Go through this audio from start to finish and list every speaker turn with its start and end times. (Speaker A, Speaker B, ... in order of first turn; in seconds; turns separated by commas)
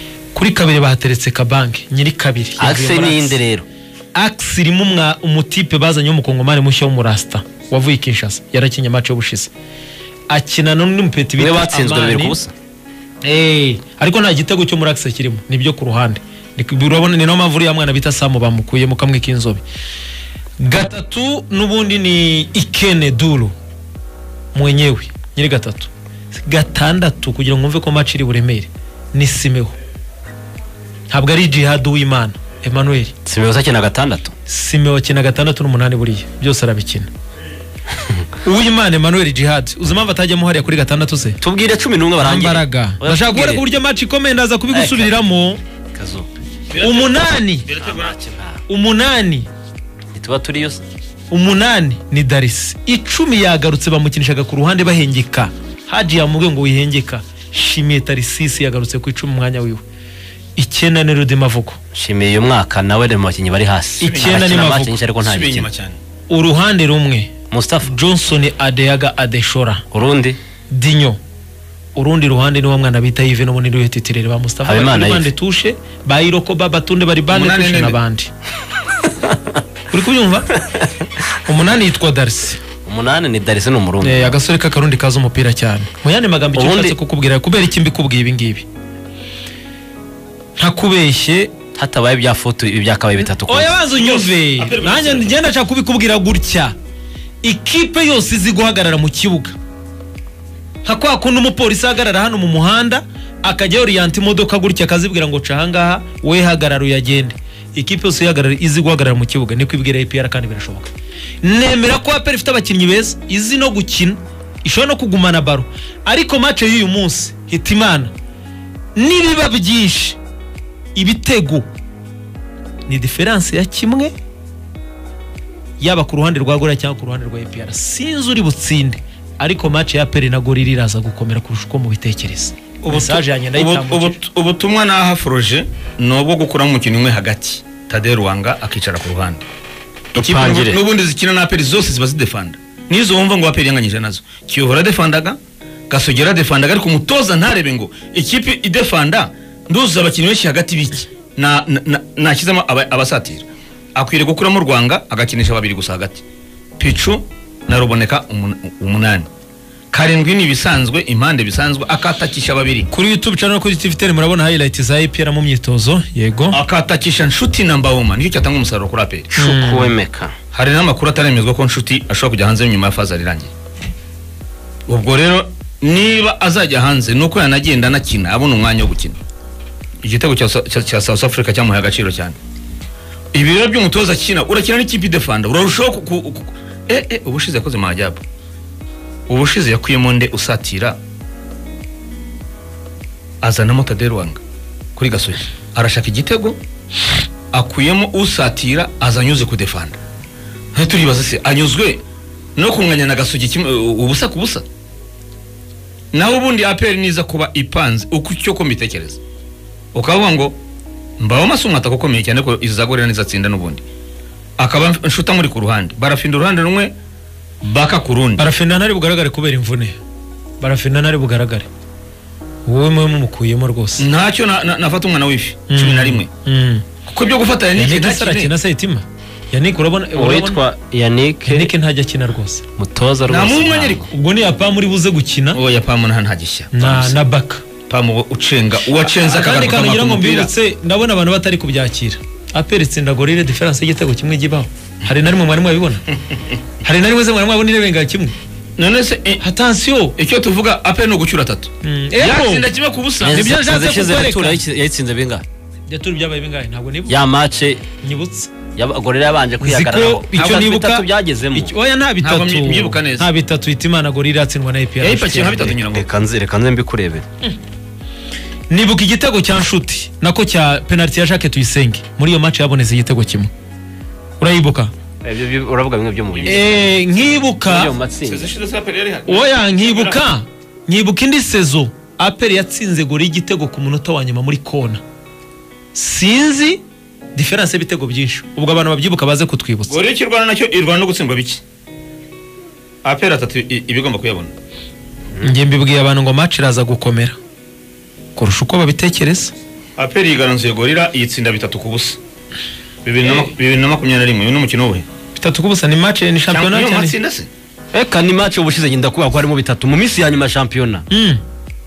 Speaker A: 0.3-3.4, Speaker B: 2.6-3.7, Speaker A: 4.1-9.5, Speaker A: 10.3-12.4, Speaker B: 11.4-12.5, Speaker A: 13.2-19.6, Speaker A: 20.6-23.5, Speaker A: 24.5-29.7, Speaker A: 31.1-33.1, Speaker B: 33.2-34.3, Speaker A: 34.5-37.1, Speaker A: 38.4-41.4, Speaker B: 41.4-43.6, Speaker A: 42.2-45.6, Speaker B: 44.7-45.1, Speaker B: 45.9-46.3, Speaker C: 46.7-48.2, Speaker A: 46.8-47.7, Speaker B: 47.8-48.6, Speaker A: 48.7-49.5, Speaker B: 50.1-50.8, Speaker A: 51.3-59.8, Speaker A: 60.6-61.8, Speaker B: 61.9-65.7, Speaker A: 64.0-65.0, Speaker C: 64.0-64.5, Speaker C: 65.2-66.0, Speaker A: 66.3-67.3, Speaker B: 67.5-67.9, Speaker A: 67.8-69.8, Speaker B: 69.9-70.4, Speaker A: 70.7-71.2, Speaker A: 72.0-78.3, Speaker B: 74.6-75.3, Speaker C: 77.3-78.0, Speaker A: 79.9-80.6, Speaker A: 81.3-82.6, Speaker B: 82.8-84.3, Speaker A: 84.0-88.7, Speaker B: 86.5-87.0, Speaker A: 90.6-91.5, Speaker B: 91.8-93.8, Speaker A: 93.4-96.8, Speaker C: 93.9-95.4, Speaker A: 97.4-99.6, Speaker A: 100.8-110.9, Speaker A: 111.4-118.1, Speaker A: 119.0-120.2, Speaker A: 120.9-121.7, Speaker A: 122.9-124.1, Speaker A: 125.8-134.2, Speaker C: 132.8-139.4, Speaker B: 140.2-140.8, Speaker C: 140.2-145.4, Speaker C: 145.9-156.2, Speaker C: 156.8-159.3, Speaker C: 159.9-162.9, Speaker A: 162.9-166.6, Speaker C: 166.5-169.3, Speaker A: 169.3-169.9, Speaker B: 169.3-170.3, Speaker C: 170.5-173.5, Speaker C: 174.9-179.2, Speaker C: 180.0-182.3, Speaker C: 183.3-188.2, Speaker C: 189.3-191.0, Speaker C: 193.4-194.4, Speaker C: 195.0-196.6, Speaker C: 197.5-200.0, Speaker C: 200.8-202.0, Speaker C: 202.6-204.7, Speaker C: 206.1-209.2, Speaker C: 209.9-210.6, Speaker C: 211.2-213.8, Speaker C: 214.6-216.9, Speaker C: 217.6-218.4, Speaker A: 218.4-220.0, Speaker A: 220.6-221.7, Speaker A: 222.7-224.0, Speaker C: 224.0-226.3, Speaker A: 225.7-226.8, Speaker C: 227.1-228.5, Speaker A: 227.8-230.6, Speaker B: 230.2-231.7, Speaker A: 231.4-232.6, Speaker B: 232.8-234.1, Speaker C: 233.3-234.1, Speaker A: 234.1-235.6, Speaker C: 235.5-237.2, Speaker A: 236.7-237.6, Speaker C: 237.9-240.5, Speaker A: 239.0-246.0, Speaker A: 246.8-248.3, Speaker C: 248.8-249.4, Speaker A: 249.4-250.2, Speaker C: 250.2-253.4, Speaker A: 251.8-252.7, Speaker B: 253.2-255.4, Speaker A: 253.3-254.6, Speaker A: 255.9-257.2, Speaker B: 257.1-257.8, Speaker A: 258.0-258.5, Speaker B: 258.8-261.7, Speaker A: 259.6-265.8, Speaker C: 262.2-263.3, Speaker C: 265.0-266.1, Speaker B: 265.9-267.2, Speaker A: 268.7-273.5, Speaker A: 274.4-274.9, Speaker B: 275.2-276.9, Speaker C: 276.4-276.7, Speaker A: 276.4-277.9, Speaker B: 277.6-278.5, Speaker C: 278.2-280.2, Speaker A: 279.3-285.0, Speaker A: 285.9-286.8, Speaker A: 287.4-290.0, Speaker C: 289.9-291.6, Speaker C: 293.0-294.5, Speaker A: 295.4-297.4, Speaker A: 298.4-299.5, Speaker C: 300.0-302.2, Speaker C: 303.1-305.1, Speaker A: 303.2-303.5, Speaker A: 305.4-307.1, Speaker C: 306.5-307.5, Speaker B: 307.9-311.1, Speaker A: 311.1-311.4